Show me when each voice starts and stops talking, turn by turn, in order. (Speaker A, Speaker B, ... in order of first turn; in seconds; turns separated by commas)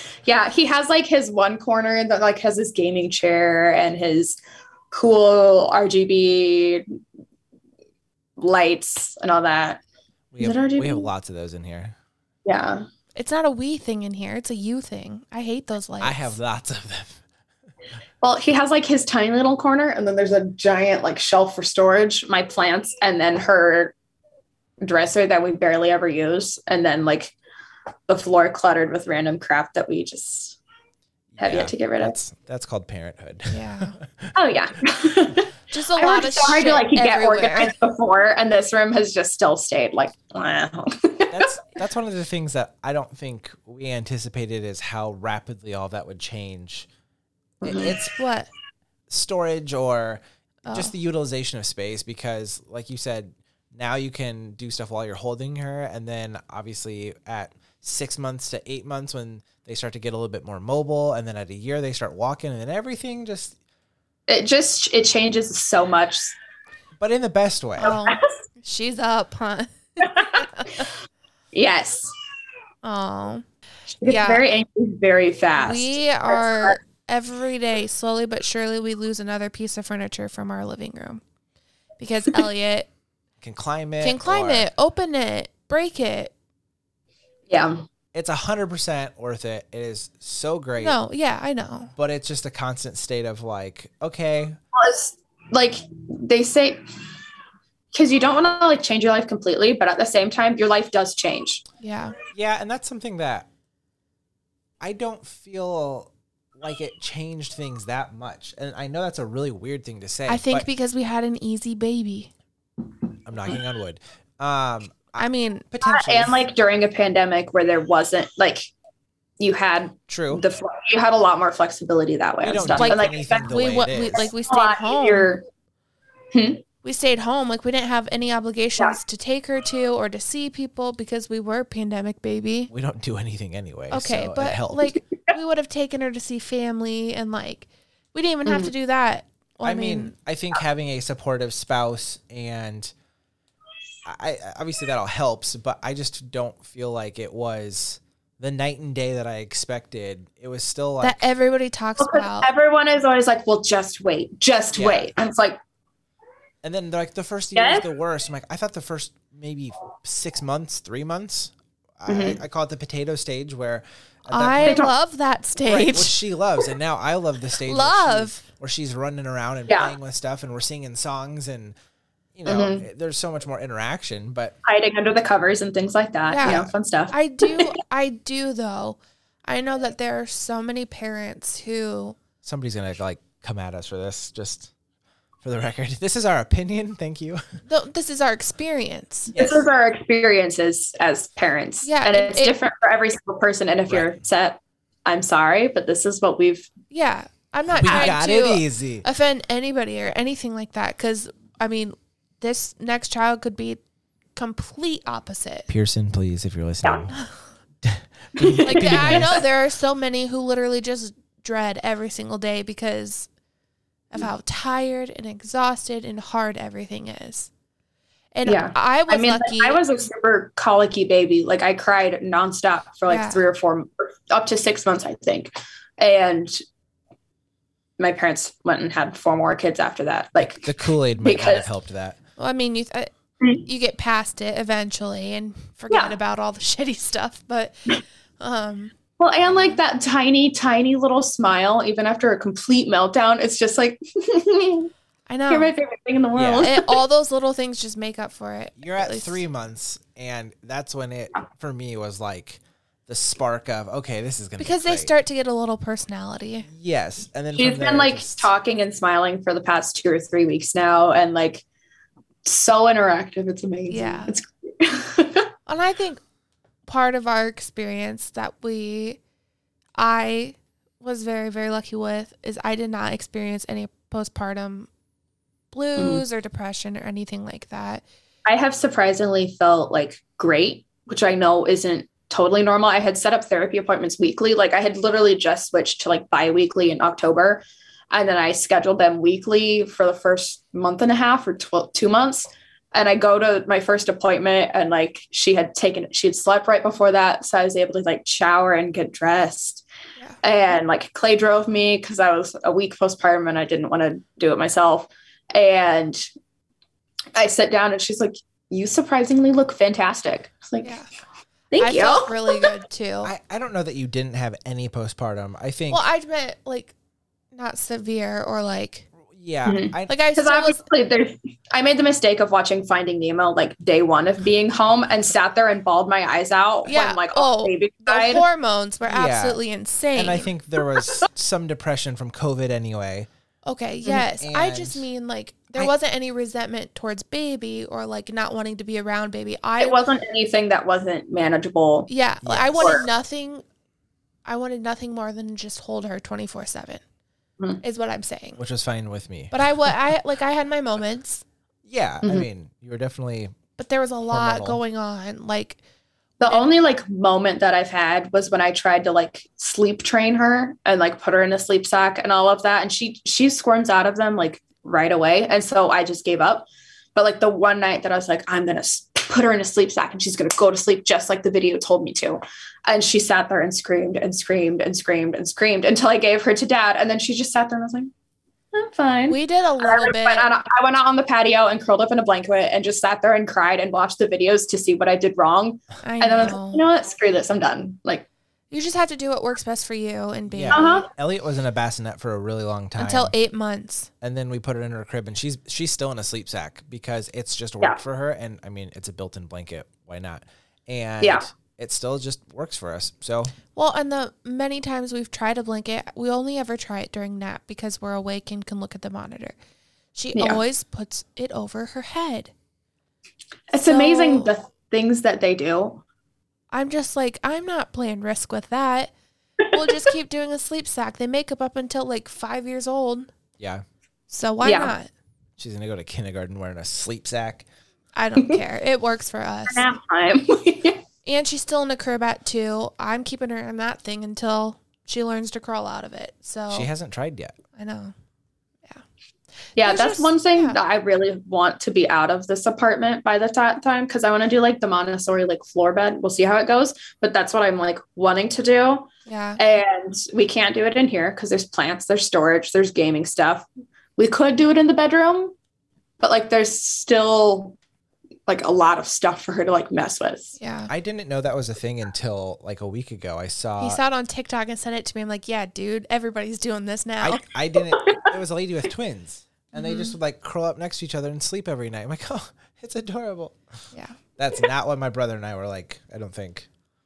Speaker A: 0.2-4.4, Speaker A: 4.9-6.9, Speaker A: 8.4-9.8, Speaker B: 10.3-11.9, Speaker A: 10.4-11.1, Speaker A: 12.4-12.8, Speaker C: 13.2-16.4, Speaker B: 16.0-17.2, Speaker A: 18.2-23.9, Speaker A: 24.8-27.3, Speaker A: 28.1-30.6, Speaker B: 31.3-34.3, Speaker A: 31.4-32.1, Speaker C: 33.5-34.0, Speaker A: 34.3-41.5, Speaker C: 35.7-37.7, Speaker B: 41.3-46.9, Speaker A: 47.6-48.0, Speaker B: 47.6-48.1, Speaker C: 48.2-48.5, Speaker B: 49.1-63.5, Speaker C: 50.6-50.9, Speaker A: 64.3-66.3, Speaker B: 67.0-68.0, Speaker A: 67.8-68.2, Speaker C: 67.8-70.8, Speaker A: 70.0-70.5, Speaker A: 71.5-72.1, Speaker C: 72.8-73.4, Speaker A: 74.0-76.8, Speaker C: 74.0-74.4, Speaker C: 75.5-81.2, Speaker C: 82.0-82.9, Speaker B: 83.4-84.7, Speaker C: 84.0-86.3, Speaker A: 87.5-87.8, Speaker B: 88.1-91.0, Speaker C: 90.8-91.9, Speaker B: 92.0-94.6, Speaker A: 94.7-96.8, Speaker A: 97.9-101.6, Speaker C: 101.8-102.2, Speaker B: 102.3-103.5, Speaker B: 104.8-110.7, Speaker C: 110.3-112.3, Speaker B: 113.2-116.4, Speaker C: 115.2-115.7, Speaker A: 115.8-118.7, Speaker A: 119.4-125.4, Speaker B: 120.1-120.4, Speaker B: 122.4-124.3, Speaker C: 122.7-125.3, Speaker A: 126.3-126.6, Speaker C: 126.8-132.7, Speaker B: 132.7-135.0, Speaker C: 133.9-140.1, Speaker A: 138.4-138.7, Speaker B: 139.6-142.9, Speaker B: 144.1-151.2, Speaker C: 151.0-152.5, Speaker A: 152.0-155.6, Speaker B: 154.7-155.2, Speaker B: 156.6-164.8, Speaker A: 157.5-157.8, Speaker A: 162.1-162.4, Speaker C: 164.3-166.1, Speaker A: 164.6-164.9, Speaker B: 165.7-171.7, Speaker C: 167.7-168.4, Speaker A: 169.7-169.9, Speaker B: 172.3-174.6, Speaker A: 172.4-172.8, Speaker A: 174.6-177.7, Speaker C: 176.3-182.2, Speaker B: 176.4-176.7, Speaker B: 182.4-184.7, Speaker B: 185.4-187.4, Speaker C: 187.7-189.3, Speaker B: 189.3-189.6, Speaker A: 189.3-196.7, Speaker C: 191.8-192.5, Speaker B: 193.9-194.1, Speaker C: 196.9-203.8, Speaker B: 197.7-199.1, Speaker A: 197.8-198.2, Speaker C: 204.3-205.7, Speaker B: 205.7-207.2, Speaker B: 207.8-209.4, Speaker A: 208.4-209.4, Speaker C: 208.6-213.3, Speaker C: 214.1-217.5, Speaker C: 218.3-219.8, Speaker A: 218.4-226.6, Speaker C: 223.1-223.4, Speaker A: 228.0-230.7, Speaker B: 230.6-232.2, Speaker A: 231.2-231.7, Speaker C: 232.4-238.9, Speaker A: 239.2-244.9, Speaker C: 245.3-245.7, Speaker A: 245.5-247.0, Speaker B: 246.3-246.7, Speaker C: 246.6-249.4, Speaker B: 248.8-255.1, Speaker C: 254.6-256.7, Speaker B: 256.7-258.5, Speaker A: 257.5-261.6, Speaker A: 262.4-265.5, Speaker C: 263.9-264.3, Speaker C: 265.7-266.2, Speaker C: 266.9-269.2, Speaker C: 270.0-274.9, Speaker C: 275.7-278.0, Speaker A: 276.0-276.2, Speaker A: 278.4-299.8, Speaker A: 300.4-306.2, Speaker A: 307.3-311.0, Speaker A: 311.7-312.7, Speaker C: 311.8-313.3, Speaker B: 313.2-316.0, Speaker C: 315.9-316.9, Speaker C: 317.5-319.1, Speaker B: 319.2-320.1, Speaker A: 319.6-328.4, Speaker C: 320.1-320.8, Speaker C: 326.9-330.5, Speaker B: 329.0-329.6, Speaker B: 330.1-333.3, Speaker C: 333.6-340.0, Speaker B: 334.4-335.0, Speaker A: 339.8-342.1, Speaker C: 342.1-343.6, Speaker B: 342.4-343.0, Speaker A: 342.8-343.0, Speaker C: 344.4-347.0, Speaker C: 347.8-348.6, Speaker B: 348.6-349.6, Speaker C: 349.5-351.4, Speaker B: 351.9-353.6, Speaker C: 353.8-355.8, Speaker B: 354.3-354.8, Speaker A: 356.4-378.1, Speaker A: 378.7-388.2, Speaker C: 379.3-380.5, Speaker C: 386.0-386.8, Speaker C: 388.7-391.1, Speaker B: 390.5-393.3, Speaker A: 390.7-391.1, Speaker C: 393.0-394.1, Speaker B: 394.2-403.5, Speaker A: 401.2-401.5, Speaker C: 403.7-409.6, Speaker C: 410.1-412.5, Speaker A: 410.4-410.6, Speaker A: 413.7-416.0, Speaker C: 413.8-414.5, Speaker C: 416.7-419.1, Speaker C: 419.7-423.3, Speaker B: 423.6-423.8, Speaker C: 424.3-425.1, Speaker A: 424.6-424.9, Speaker B: 425.6-427.6, Speaker C: 428.1-429.9, Speaker A: 429.7-431.0, Speaker C: 431.2-436.9, Speaker B: 436.7-437.6, Speaker C: 437.8-438.1, Speaker C: 439.8-440.8, Speaker A: 439.8-455.5, Speaker C: 449.3-449.6, Speaker A: 456.2-457.8, Speaker A: 458.5-460.6, Speaker C: 460.6-460.9, Speaker B: 460.9-464.0, Speaker C: 463.8-467.4, Speaker B: 467.2-473.6, Speaker C: 469.7-470.1, Speaker B: 474.4-476.7